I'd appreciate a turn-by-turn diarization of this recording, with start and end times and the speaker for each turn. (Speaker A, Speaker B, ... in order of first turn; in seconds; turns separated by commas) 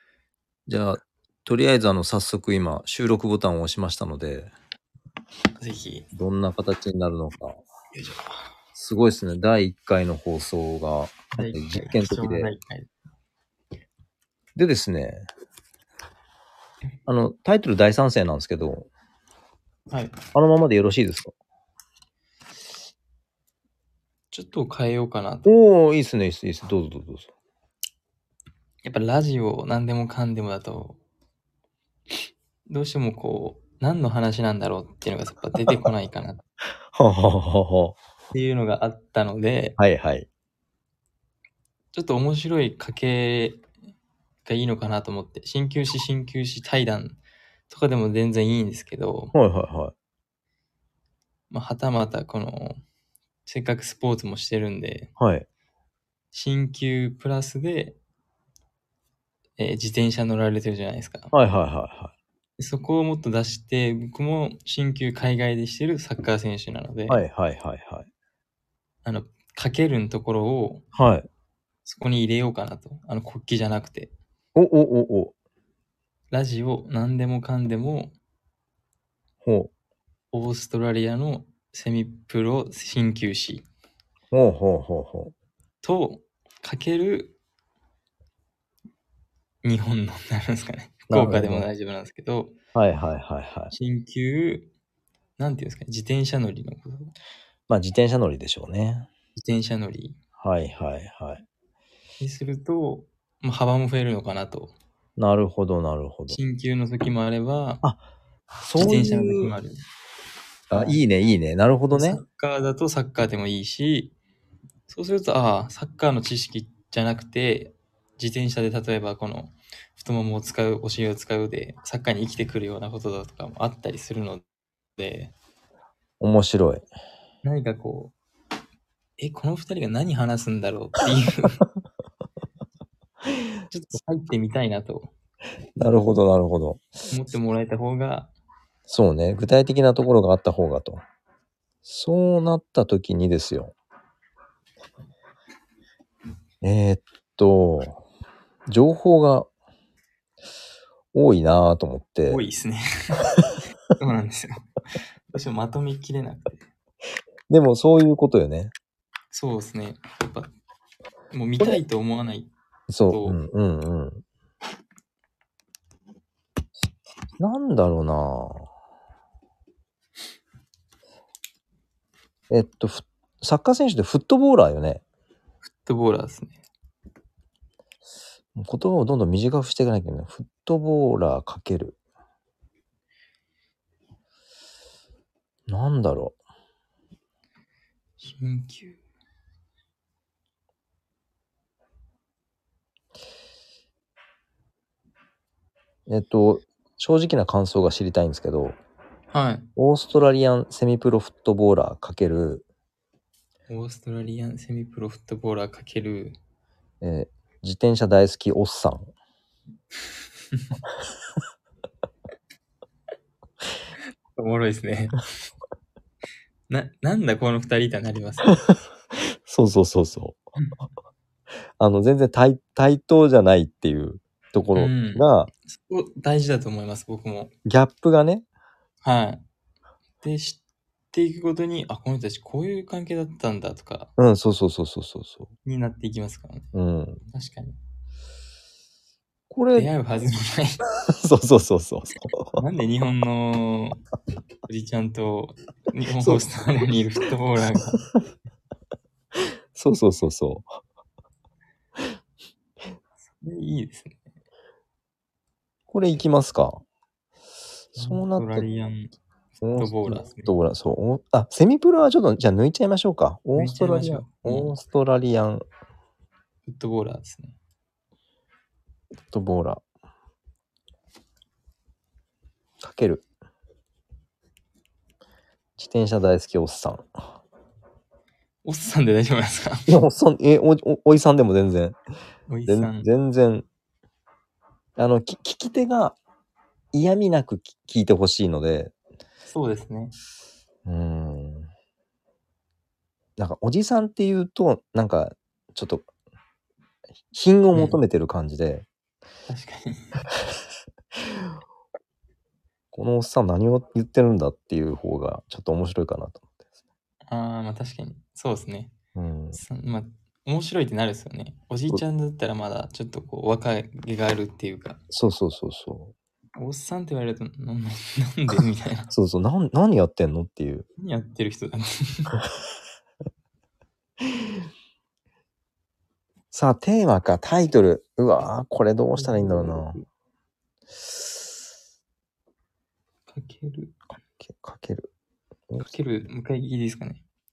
Speaker A: 0.7-4.5, Speaker B: 5.6-6.1, Speaker A: 6.1-7.6, Speaker B: 7.9-8.4, Speaker A: 8.7-12.5, Speaker B: 11.3-12.9, Speaker A: 14.6-15.3, Speaker A: 17.1-18.9, Speaker B: 19.9-20.2, Speaker A: 20.3-21.3, Speaker B: 24.3-25.5, Speaker A: 25.4-27.3, Speaker B: 28.8-31.0, Speaker B: 32.7-36.4, Speaker A: 36.9-38.0, Speaker B: 38.3-39.8, Speaker A: 39.8-40.3, Speaker B: 41.9-43.6, Speaker B: 44.4-47.2, Speaker B: 47.7-49.3, Speaker A: 49.3-49.9, Speaker B: 51.5-52.8, Speaker B: 53.5-55.1, Speaker A: 55.2-55.5, Speaker B: 56.3-58.0, Speaker B: 59.6-61.3, Speaker A: 61.3-62.1, Speaker B: 62.6-67.2, Speaker A: 67.1-68.1, Speaker B: 69.0-70.8, Speaker A: 70.9-71.3, Speaker B: 71.8-74.1, Speaker A: 74.5-75.3, Speaker B: 76.3-78.1, Speaker A: 79.4-79.7, Speaker B: 80.3-83.7, Speaker A: 84.3-85.3, Speaker B: 85.8-87.3, Speaker B: 89.6-92.5, Speaker A: 91.1-91.7, Speaker A: 92.7-93.7, Speaker B: 93.7-94.7, Speaker B: 95.4-97.1, Speaker A: 97.7-99.1, Speaker B: 99.3-100.2, Speaker A: 100.4-101.4, Speaker B: 102.2-104.7, Speaker A: 105.2-106.4, Speaker B: 106.3-107.8, Speaker A: 108.6-109.5, Speaker B: 108.8-109.8, Speaker A: 110.7-112.2, Speaker B: 110.7-111.0, Speaker B: 111.9-114.1, Speaker B: 114.9-124.4, Speaker B: 125.0-125.3, Speaker A: 126.2-126.8, Speaker B: 127.4-128.1, Speaker B: 129.2-131.6, Speaker B: 133.7-135.1, Speaker A: 135.8-136.9, Speaker B: 137.1-138.3, Speaker A: 138.9-141.0, Speaker A: 141.8-143.7, Speaker A: 146.6-148.0, Speaker A: 148.7-149.5, Speaker A: 151.1-152.4, Speaker B: 152.2-153.4, Speaker B: 154.0-154.6, Speaker B: 155.3-156.7, Speaker A: 157.5-158.7, Speaker B: 159.3-160.5, Speaker B: 161.3-162.5, Speaker A: 162.9-164.2, Speaker B: 163.1-163.4, Speaker A: 167.4-168.7, Speaker A: 172.5-175.0, Speaker B: 175.6-176.6, Speaker A: 178.6-181.9, Speaker A: 185.7-186.4, Speaker B: 188.2-189.0, Speaker A: 196.1-198.8, Speaker B: 199.3-199.7, Speaker A: 199.8-202.6, Speaker B: 203.7-206.4, Speaker A: 207.0-209.1, Speaker B: 210.5-210.8, Speaker B: 214.3-215.2, Speaker B: 216.7-218.6, Speaker A: 219.4-220.4, Speaker A: 221.8-225.5, Speaker B: 224.7-227.5, Speaker A: 227.7-228.4, Speaker B: 229.0-229.4, Speaker B: 230.2-234.1, Speaker A: 234.2-235.5, Speaker B: 235.6-236.7, Speaker A: 236.7-237.2, Speaker B: 237.3-237.8, Speaker A: 239.5-239.9, Speaker B: 239.7-240.8, Speaker A: 241.1-242.6, Speaker B: 242.6-244.0, Speaker B: 244.7-248.0, Speaker A: 249.7-250.7, Speaker B: 253.3-254.2, Speaker A: 255.9-256.8, Speaker A: 257.9-258.7, Speaker B: 258.0-259.1, Speaker A: 259.6-265.6, Speaker B: 259.7-260.5, Speaker B: 263.5-264.8, Speaker B: 266.6-267.6, Speaker A: 269.3-269.8, Speaker A: 272.8-273.2, Speaker A: 275.8-277.2, Speaker B: 278.6-279.9, Speaker A: 279.9-281.9, Speaker B: 282.5-283.1, Speaker A: 282.7-283.6, Speaker A: 285.0-286.2, Speaker A: 286.9-288.9, Speaker B: 289.5-290.1, Speaker A: 290.9-291.7, Speaker A: 293.4-296.1, Speaker A: 297.3-298.9, Speaker B: 297.7-298.0, Speaker B: 299.5-300.2, Speaker A: 302.9-306.5, Speaker B: 307.3-308.9, Speaker A: 309.1-309.6, Speaker B: 309.5-315.0, Speaker A: 315.1-316.1, Speaker B: 316.6-319.1, Speaker A: 319.1-320.9, Speaker B: 321.0-322.3, Speaker A: 326.5-330.0, Speaker B: 329.1-330.0, Speaker B: 333.3-333.9, Speaker A: 334.4-335.1, Speaker B: 335.8-337.2